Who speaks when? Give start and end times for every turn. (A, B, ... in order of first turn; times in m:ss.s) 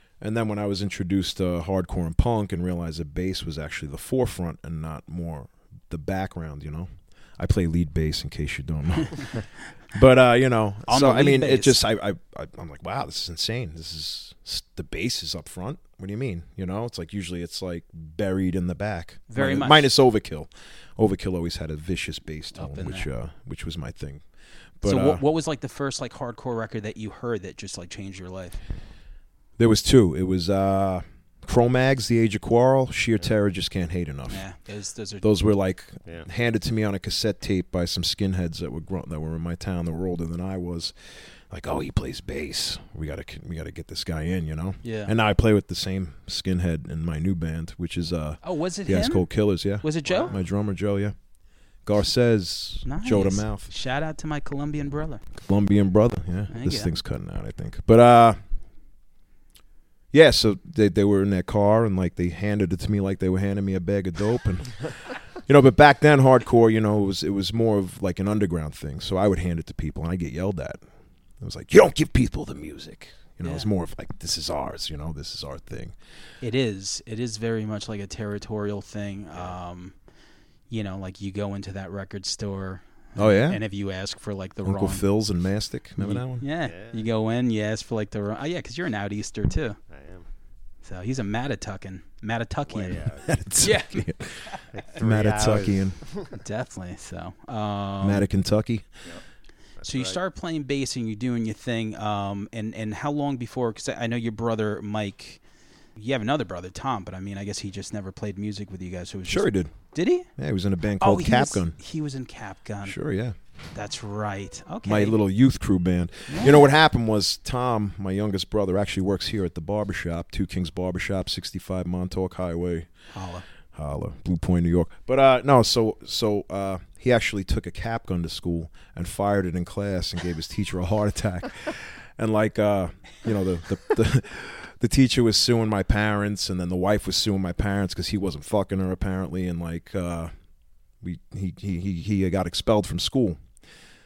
0:00.2-0:24.2 A
0:10.9-0:11.8 B
0:19.3-0:19.9 B
0:22.6-0:23.1 B
0:24.8-0:25.2 A
0:24.8-0:28.6 B
0:29.6-0:34.4 A
0:34.3-0:35.2 B
0:35.2-0:51.1 A
0:44.8-0:45.1 B
0:48.4-0:50.3 B
0:50.0-0:50.4 C
0:51.8-0:53.7 A
0:52.8-0:55.2 B
0:55.4-0:58.4 A
0:56.5-0:56.9 B
1:00.1-1:10.8 A
1:11.4-1:15.9 A
1:13.4-1:13.7 B
1:16.4-1:19.9 B
1:20.7-1:25.0 B
1:23.2-1:23.6 A
1:24.6-1:26.4 A
1:26.0-1:29.8 B
1:26.6-1:27.0 C
1:29.9-1:30.3 C
1:30.8-1:34.6 B
1:32.7-1:33.3 C
1:33.2-1:36.0 A
1:34.7-1:36.4 C
1:36.3-1:38.2 B
1:38.0-1:38.8 A
1:39.8-1:40.2 C
1:39.8-1:45.4 B
1:46.0-1:50.3 B
1:49.3-1:49.7 A
1:50.3-1:51.8 A
1:51.0-1:53.0 B
1:52.8-1:53.4 A
1:53.7-1:55.2 B
1:54.8-2:02.9 A
1:56.3-1:56.6 B
2:03.1-2:03.4 B
2:03.7-2:20.3 A
2:21.0-2:23.4 A